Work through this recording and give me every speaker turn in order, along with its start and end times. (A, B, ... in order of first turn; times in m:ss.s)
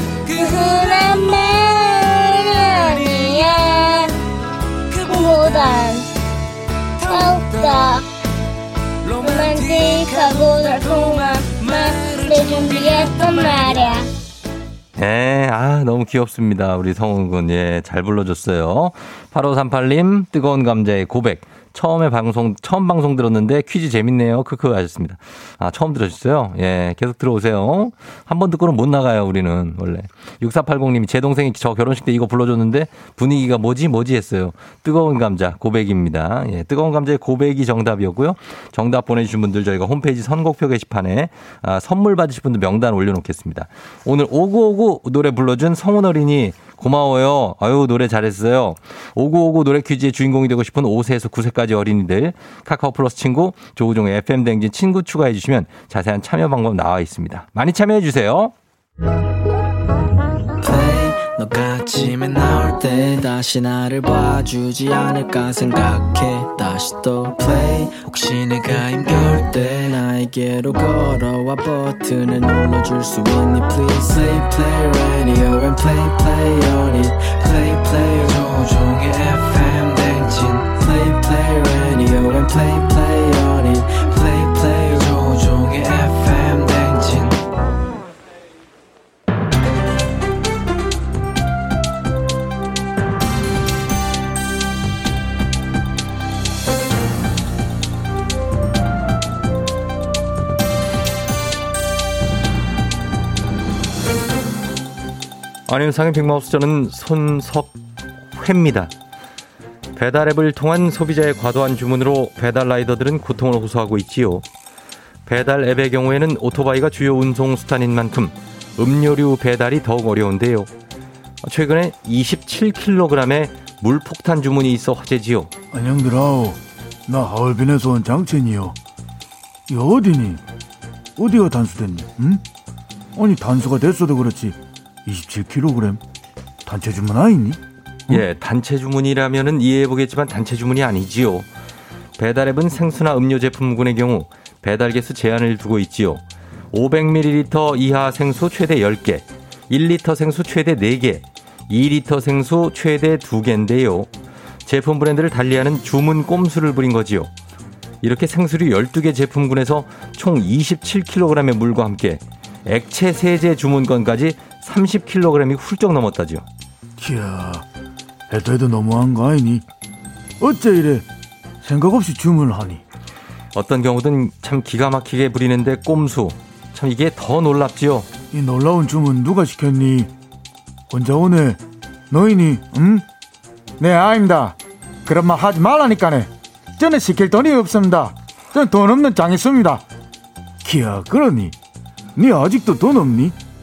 0:00.3-0:04.2 A
0:05.0-0:06.1 A
0:07.1-0:08.0 A
0:09.2-0:14.1 A
0:15.0-0:58.5 B
1:00.6-1:27.4 C
1:45.7-1:47.8 B
1:48.3-1:48.9 B
1:50.0-1:54.4 B
1:55.3-2:00.7 B
2:01.4-2:05.5 B
2:05.7-2:08.8 D
2:09.7-2:10.4 D
2:11.2-2:12.4 D
2:13.2-2:16.0 D
2:16.6-2:17.6 D
2:18.1-2:21.5 B
2:22.2-2:34.1 B
2:34.6-2:37.3 B
2:38.0-2:46.4 B
2:47.0-2:47.6 D
2:48.3-2:49.6 D
2:50.4-2:51.1 D
2:51.6-2:52.8 D
2:53.5-2:58.1 B
2:58.3-3:00.1 D
3:00.9-3:03.0 D
3:03.8-3:09.8 D
3:10.6-3:11.6 D
3:12.2-3:13.4 D